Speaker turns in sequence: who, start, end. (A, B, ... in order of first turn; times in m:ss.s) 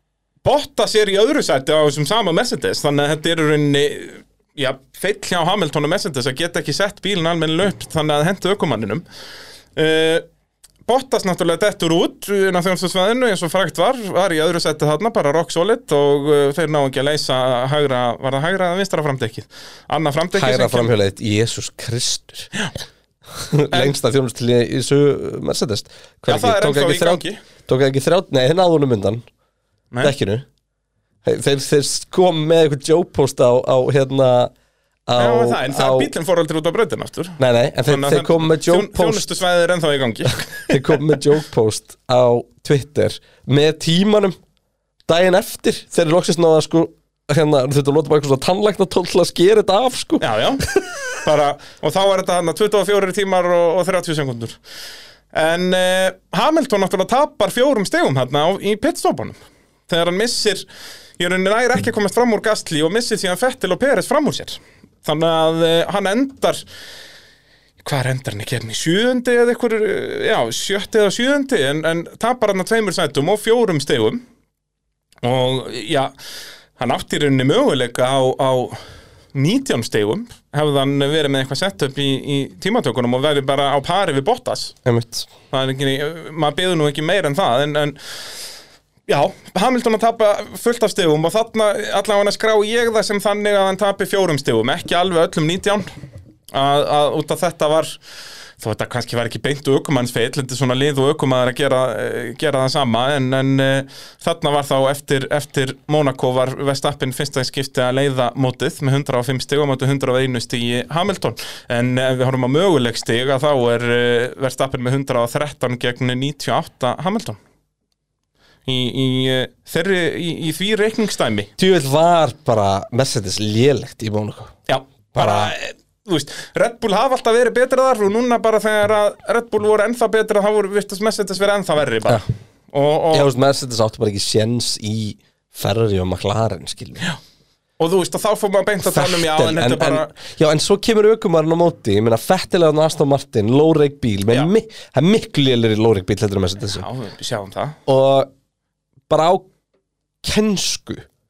0:00.4-0:09.0 A
0:09.7-0:10.2 A
0:10.8-0:20.9 A
0:20.3-0:22.5 B
0:23.4-0:29.2 B
0:26.3-0:27.4 A
0:30.0-0:30.4 B
0:31.2-0:34.5 B
0:35.1-0:36.1 B
0:35.2-0:41.2 A
0:37.4-0:39.4 B
0:40.3-0:44.4 B
0:45.1-0:51.2 B
0:50.2-0:50.6 A
0:51.2-0:54.6 A
0:55.3-1:00.6 A
1:01.2-1:06.6 A
1:07.8-1:14.2 A
1:15.2-1:16.1 A
1:16.8-1:18.8 A
1:19.3-1:24.7 A
1:24.8-1:25.3 B
1:25.5-1:28.0 A
1:29.1-1:35.9 A
1:36.5-1:38.0 A
1:38.6-1:57.4 A
1:58.6-2:01.5 A
2:01.6-2:04.5 B
2:04.7-2:13.3 A
2:05.1-2:05.5 B
2:13.1-2:17.1 B
2:17.8-2:20.1 A
2:18.8-2:26.8 B
2:26.7-2:27.8 A
2:27.8-2:28.3 B
2:29.1-2:29.5 B
2:30.2-2:31.1 B